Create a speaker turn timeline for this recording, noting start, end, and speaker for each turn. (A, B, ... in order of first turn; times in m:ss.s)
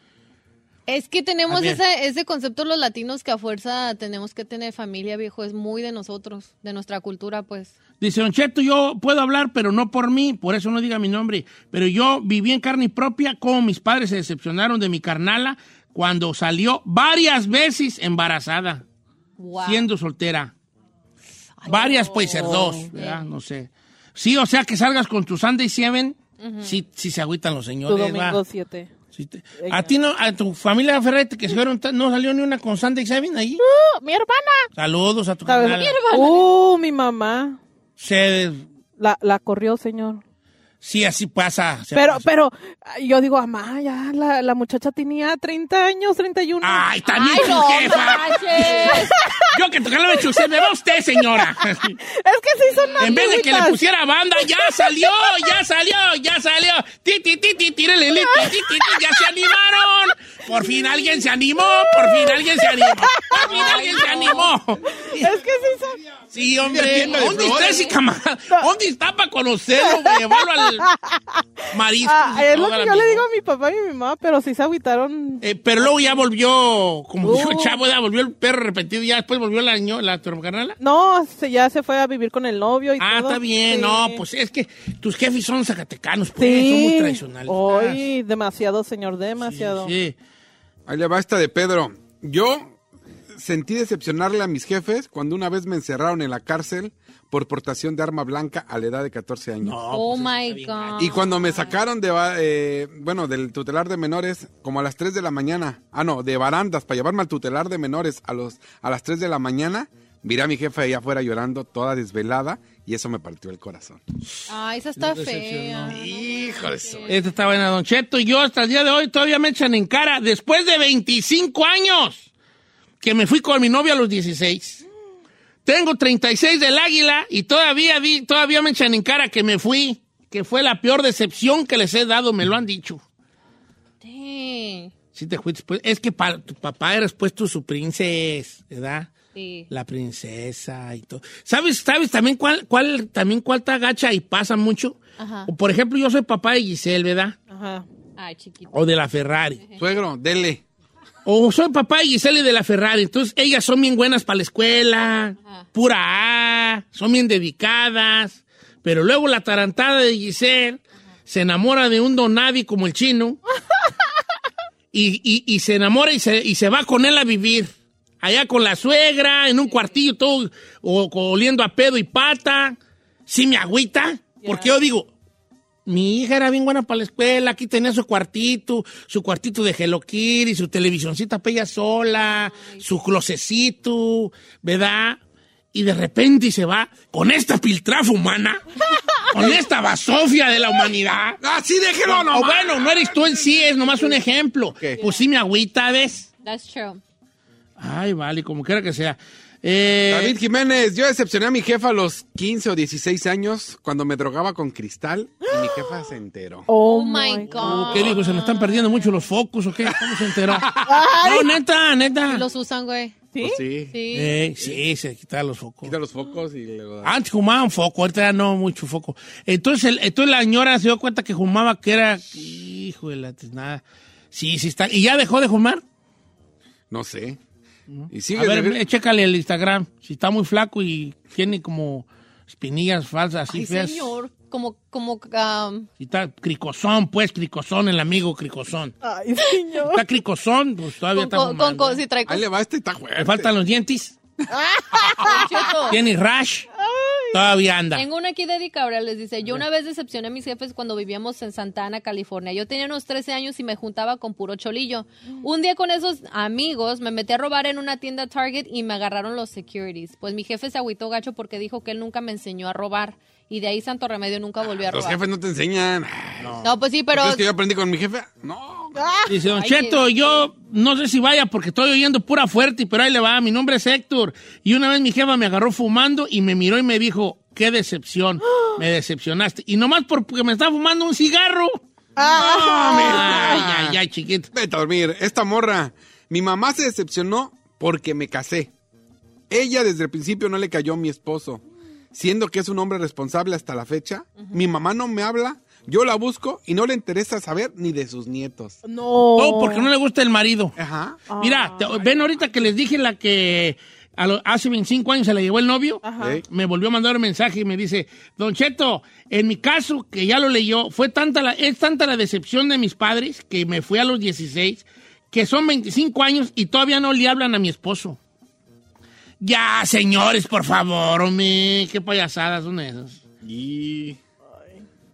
0:00.9-0:07.7 A
0:01.5-0:01.8 B
0:08.0-0:18.8 B
0:19.4-0:19.9 A
0:19.6-0:20.5 B
0:21.6-0:23.2 A
0:21.7-0:28.4 B
0:21.7-0:22.9 C
0:26.4-0:26.8 A
0:27.9-0:28.9 C
0:29.1-0:33.6 B
0:29.6-0:29.9 C
0:33.6-0:34.7 C
0:34.7-0:36.0 B
0:35.5-0:37.6 C
0:35.8-0:36.5 A
0:38.0-0:38.7 B
0:39.0-0:40.2 C
0:40.8-0:42.3 B
0:41.9-0:53.8 C
0:46.6-0:52.0 B
0:47.1-0:49.1 A
0:52.7-0:53.1 A
0:53.0-1:05.4 B
0:54.4-0:55.5 C
0:58.1-0:59.4 C
1:00.5-1:06.0 C
1:03.4-1:04.5 A
1:06.3-1:10.9 B
1:06.6-1:07.9 D
1:06.8-1:08.0 A
1:09.8-1:11.4 C
1:11.7-1:13.3 B
1:12.0-1:16.2 C
1:15.4-1:20.8 B
1:17.2-1:17.8 C
1:20.8-1:24.2 C
1:23.0-1:28.1 B
1:26.4-1:29.9 C
1:29.4-1:30.2 B
1:30.9-1:32.8 D
1:33.3-1:39.8 D
1:39.6-1:41.6 B
1:39.9-1:41.8 A
1:41.0-1:54.0 D
1:54.5-1:57.4 A
1:55.0-1:56.0 B
1:55.9-1:57.1 D
1:57.1-2:02.3 B
2:03.0-2:04.8 B
2:05.7-2:13.0 B
2:14.0-2:14.9 A
2:15.1-2:19.1 B
2:19.3-2:19.7 A
2:19.7-2:27.4 B
2:25.2-2:25.5 A
2:27.5-2:27.9 C
2:28.2-2:28.8 A
2:28.7-2:29.6 B
2:29.8-2:30.6 D
2:31.2-2:43.4 B
2:44.9-2:55.1 B
2:49.7-2:50.0 A
2:54.4-2:54.7 C
2:55.9-3:05.2 B
3:02.2-3:02.8 A
3:05.7-3:08.6 B
3:09.3-3:11.4 B
3:11.4-3:13.6 D
3:12.1-3:16.3 B
3:16.4-3:17.0 A
3:17.8-3:20.4 B
3:20.1-3:26.7 D
3:26.7-3:29.1 C
3:26.8-3:28.4 A
3:27.6-3:30.7 B
3:29.9-3:31.0 D
3:30.8-3:31.6 C
3:31.2-3:32.4 B
3:32.3-3:33.2 A
3:33.3-3:33.6 C
3:33.4-3:33.9 D
3:33.9-3:34.3 A
3:34.1-3:36.0 B
3:34.6-3:34.8 D
3:35.8-3:37.2 D
3:37.0-3:45.8 B
3:46.9-3:47.4 D
3:47.9-3:54.1 B
3:48.1-3:48.8 D
3:53.5-3:55.9 A
3:56.0-3:58.9 B
3:59.0-4:00.0 C
3:59.9-4:02.0 B
4:01.1-4:02.4 A
4:02.3-4:03.5 D
4:03.2-4:04.2 B
4:04.5-4:05.6 C
4:05.2-4:06.0 A
4:05.9-4:06.7 B
4:06.8-4:07.5 C
4:07.3-4:08.1 B
4:08.0-4:25.2 A
4:24.6-4:29.0 D
4:26.4-4:26.7 B
4:26.6-4:27.4 A
4:29.0-4:29.3 C
4:29.3-4:41.8 B
4:29.5-4:30.5 A
4:38.5-4:38.8 C
4:42.2-4:43.6 C
4:42.2-4:44.0 D
4:42.6-4:44.5 B
4:44.5-4:48.7 D
4:49.5-4:51.6 D
4:52.1-4:58.8 D
4:58.8-4:59.9 C
4:59.4-5:00.8 B
5:00.8-5:01.2 D
5:01.3-5:02.4 C
5:01.4-5:18.2 B
5:06.0-5:06.4 C
5:06.2-5:06.4 D
5:19.4-5:23.2 B
5:23.4-5:24.2 D
5:24.6-5:24.8 C